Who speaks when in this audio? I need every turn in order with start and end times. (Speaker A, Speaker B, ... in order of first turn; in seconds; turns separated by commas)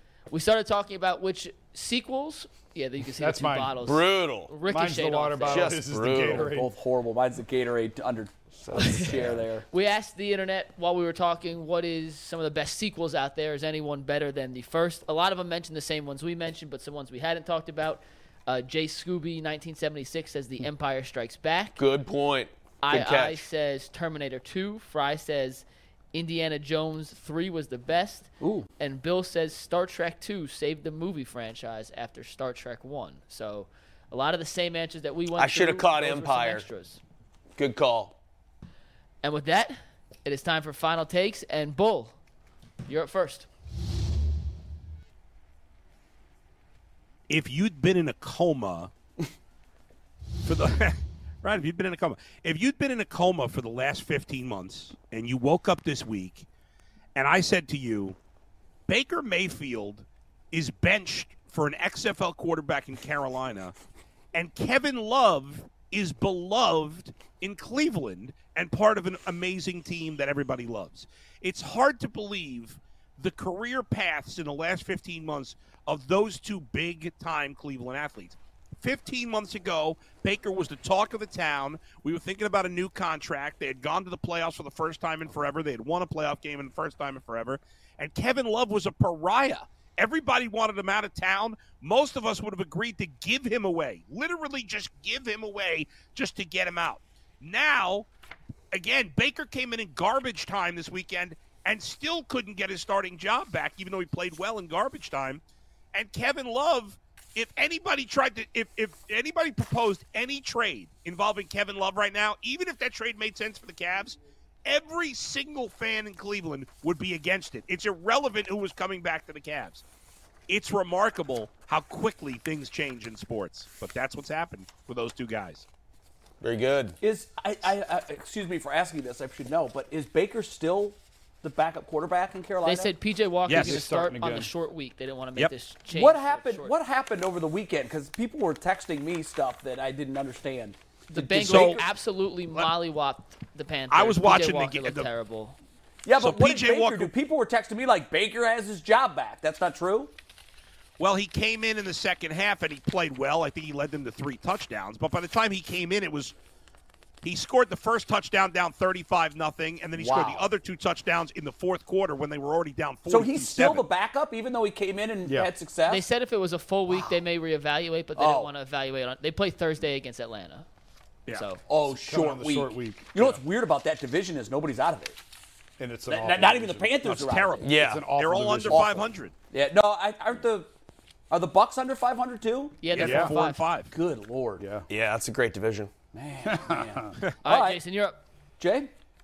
Speaker A: 0.3-5.8, Speaker B: 3.2-3.8, Speaker C: 3.7-4.5, Speaker B: 4.7-6.7, Speaker C: 5.4-6.5, Speaker D: 6.3-9.6, Speaker C: 8.6-9.4, Speaker A: 8.8-9.1, Speaker A: 9.7-21.8, Speaker C: 21.8-23.5, Speaker A: 22.8-37.0, Speaker D: 28.4-28.7, Speaker C: 35.3-36.7, Speaker C: 37.6-38.1, Speaker A: 39.2-42.1, Speaker A: 42.9-43.5, Speaker E: 47.3-48.9, Speaker E: 50.4-56.5, Speaker E: 57.1-58.1, Speaker E: 58.9-63.7, Speaker E: 64.3-98.1, Speaker E: 98.7-105.4, Speaker E: 105.9-119.8, Speaker E: 120.5-125.7, Speaker C: 126.4-126.9, Speaker D: 127.0-132.9, Speaker A: 132.6-136.7, Speaker E: 133.5-133.9, Speaker B: 133.5-134.5, Speaker D: 135.9-141.8, Speaker A: 141.1-145.6, Speaker E: 141.4-141.8, Speaker E: 143.9-145.1, Speaker D: 146.0-150.1, Speaker E: 146.2-147.1, Speaker E: 151.0-156.3, Speaker E: 157.2-163.8, Speaker D: 159.9-160.5, Speaker D: 163.1-166.0, Speaker B: 165.2-165.5, Speaker A: 165.9-170.7, Speaker D: 166.9-167.2, Speaker D: 168.2-168.5, Speaker A: 171.3-171.6, Speaker D: 171.7-175.2, Speaker B: 172.0-173.4, Speaker B: 175.8-179.1, Speaker D: 176.1-177.7, Speaker E: 177.0-179.3, Speaker C: 177.6-178.1, Speaker D: 179.5-180.7, Speaker D: 181.3-182.8, Speaker A: 182.8-183.7, Speaker E: 182.9-183.9, Speaker B: 183.0-183.3, Speaker D: 183.9-184.6, Speaker B: 184.6-184.8, Speaker C: 184.9-185.9, Speaker D: 186.1-187.8, Speaker B: 186.4-187.1, Speaker A: 187.4-188.2, Speaker D: 188.6-188.9